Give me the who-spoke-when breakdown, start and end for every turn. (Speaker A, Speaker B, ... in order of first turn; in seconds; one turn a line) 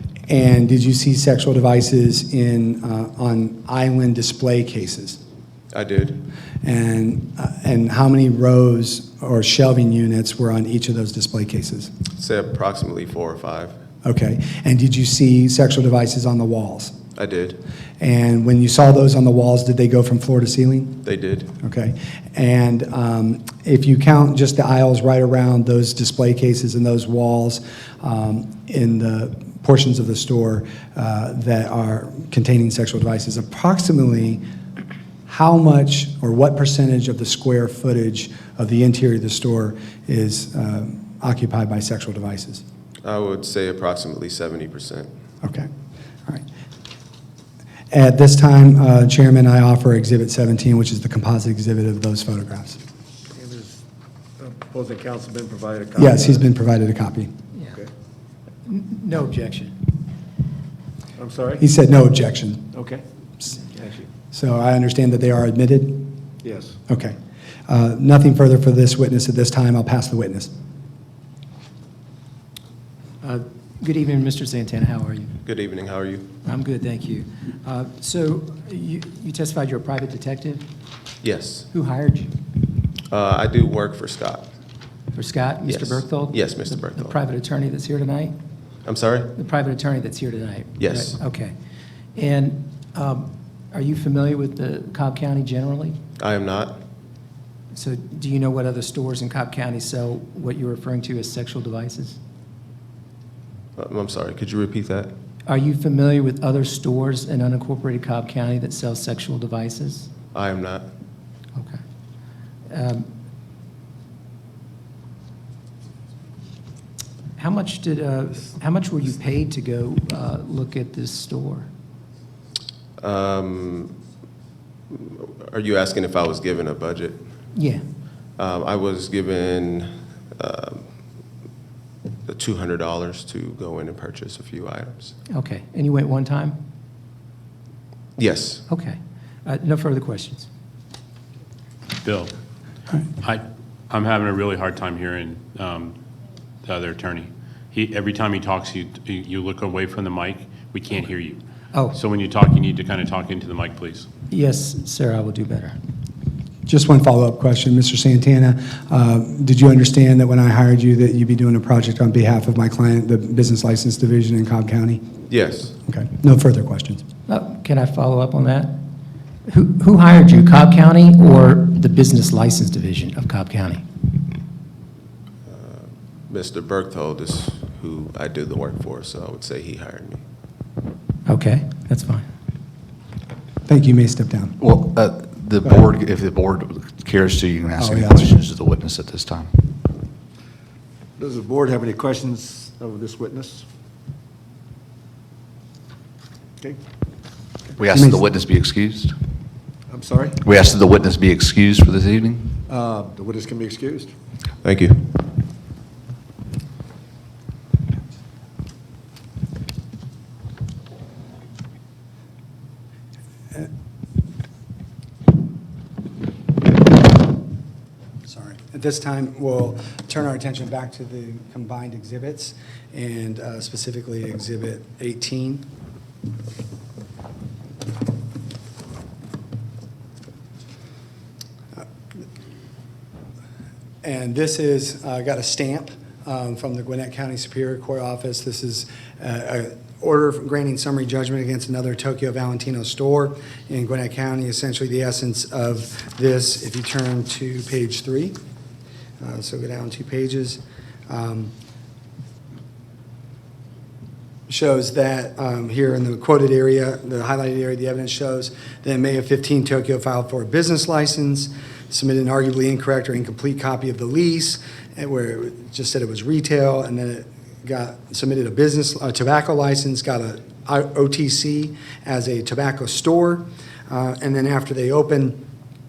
Speaker A: 0.3-5.2
Speaker B: 5.7-6.2
Speaker A: 6.6-11.9
Speaker B: 12.2-13.8
Speaker A: 14.0-16.9
Speaker B: 17.2-17.6
Speaker A: 18.0-21.0
Speaker B: 21.0-21.5
Speaker A: 21.6-34.4
Speaker A: 35.3-42.6
Speaker B: 43.0-45.1
Speaker A: 45.4-45.7
Speaker A: 47.9-52.8
Speaker C: 53.3-53.8
Speaker C: 54.4-56.5
Speaker A: 56.0-57.3
Speaker D: 58.7-59.9
Speaker C: 61.2-61.6
Speaker A: 61.6-62.7
Speaker C: 62.7-63.0
Speaker C: 63.7-64.1
Speaker A: 64.3-66.1
Speaker C: 66.4-66.8
Speaker A: 66.9-67.2
Speaker A: 67.7-70.5
Speaker D: 73.2-75.3
Speaker B: 75.5-76.3
Speaker D: 76.5-80.6
Speaker B: 81.2-81.7
Speaker D: 81.7-82.3
Speaker B: 83.1-84.5
Speaker D: 85.2-88.4
Speaker B: 85.6-87.2
Speaker B: 88.8-89.3
Speaker D: 89.3-91.5
Speaker B: 90.8-91.2
Speaker D: 92.2-96.0
Speaker B: 96.2-96.8
Speaker D: 97.7-102.2
Speaker B: 103.8-105.1
Speaker D: 105.5-110.1
Speaker B: 110.3-110.9
Speaker D: 112.7-113.1
Speaker D: 117.4-121.7
Speaker B: 123.0-124.0
Speaker B: 124.9-127.2
Speaker D: 127.5-127.8
Speaker B: 128.4-130.8
Speaker B: 132.3-135.1
Speaker D: 135.3-136.6
Speaker B: 138.2-138.6
Speaker D: 138.7-140.5
Speaker E: 142.0-142.3
Speaker E: 143.2-146.0
Speaker E: 146.6-151.4
Speaker E: 151.9-154.1
Speaker D: 154.3-155.8
Speaker A: 156.7-165.0
Speaker B: 165.3-165.7
Speaker A: 165.8-167.0
Speaker D: 167.3-168.8
Speaker D: 169.5-173.8
Speaker B: 175.5-180.2
Speaker D: 181.3-182.2
Speaker A: 183.7-184.6
Speaker F: 184.6-189.7
Speaker A: 187.8-188.3
Speaker C: 191.2-193.7
Speaker F: 197.8-199.2
Speaker A: 197.9-198.2
Speaker C: 199.9-200.4
Speaker F: 200.4-202.6
Speaker C: 202.7-204.1
Speaker B: 204.6-205.1
Speaker A: 218.3-225.6
Speaker A: 234.0-248.4
Speaker A: 249.2-251.5
Speaker A: 254.5-275.4